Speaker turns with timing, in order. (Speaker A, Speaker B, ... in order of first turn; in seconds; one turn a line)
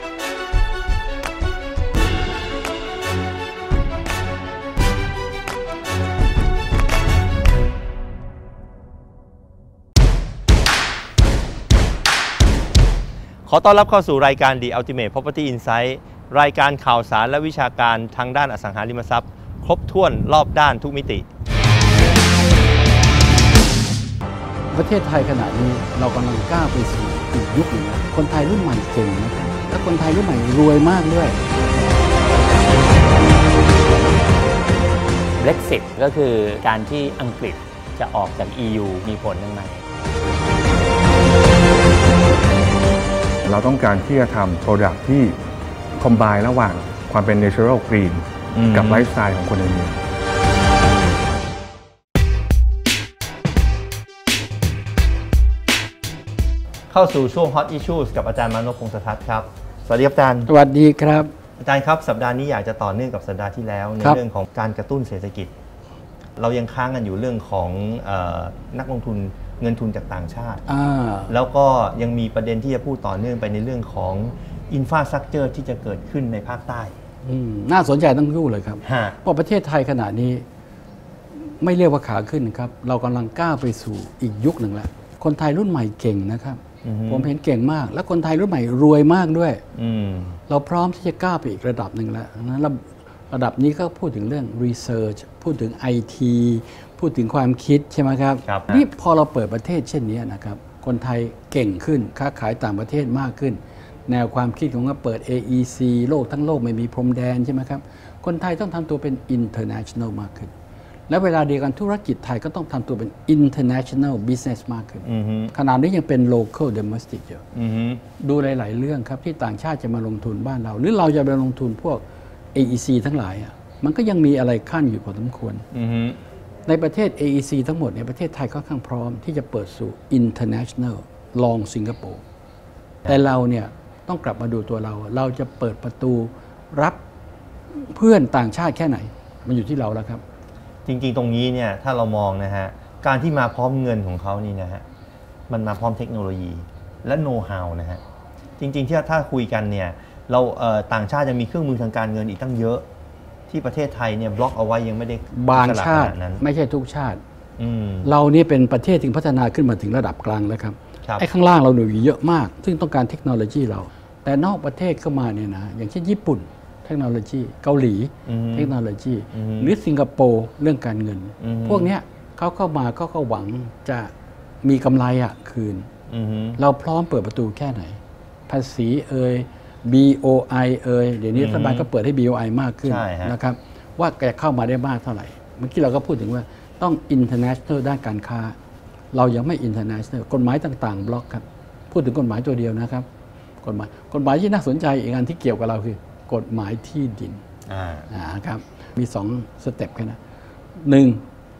Speaker A: 13.4-21.2
Speaker B: 24.7-31.4
Speaker C: 35.4-39.9
Speaker D: 43.4-45.4
Speaker D: 46.0-50.0
Speaker A: 48.5-49.0
Speaker A: 56.9-60.5
Speaker B: 60.5-61.3
Speaker A: 61.6-65.5
Speaker A: 66.4-70.6
Speaker B: 70.7-71.3
Speaker A: 71.3-77.0
Speaker B: 77.2-80.4
Speaker A: 78.8-79.2
Speaker B: 81.3-89.6
Speaker A: 86.8-87.3
Speaker A: 89.7-90.4
Speaker B: 90.5-110.5
Speaker A: 98.4-98.8
Speaker B: 111.1-117.4
Speaker A: 115.0-115.5
Speaker A: 117.5-118.0
Speaker B: 118.2-125.6
Speaker A: 125.7-126.2
Speaker B: 126.7-132.2
Speaker B: 133.1-137.0
Speaker B: 137.7-140.2
Speaker A: 140.8-144.8
Speaker A: 145.5-148.0
Speaker A: 148.6-152.8
Speaker A: 153.5-156.4
Speaker B: 155.3-157.2
Speaker A: 157.6-158.1
Speaker B: 158.0-174.1
Speaker A: 168.3-168.7
Speaker A: 169.3-169.7
Speaker A: 171.4-171.9
Speaker B: 174.6-175.9
Speaker A: 176.1-176.6
Speaker B: 176.6-188.6
Speaker A: 181.3-181.9
Speaker A: 182.8-183.3
Speaker B: 189.1-193.1
Speaker B: 193.6-197.4
Speaker A: 197.7-198.1
Speaker B: 198.1-200.2
Speaker B: 200.8-201.2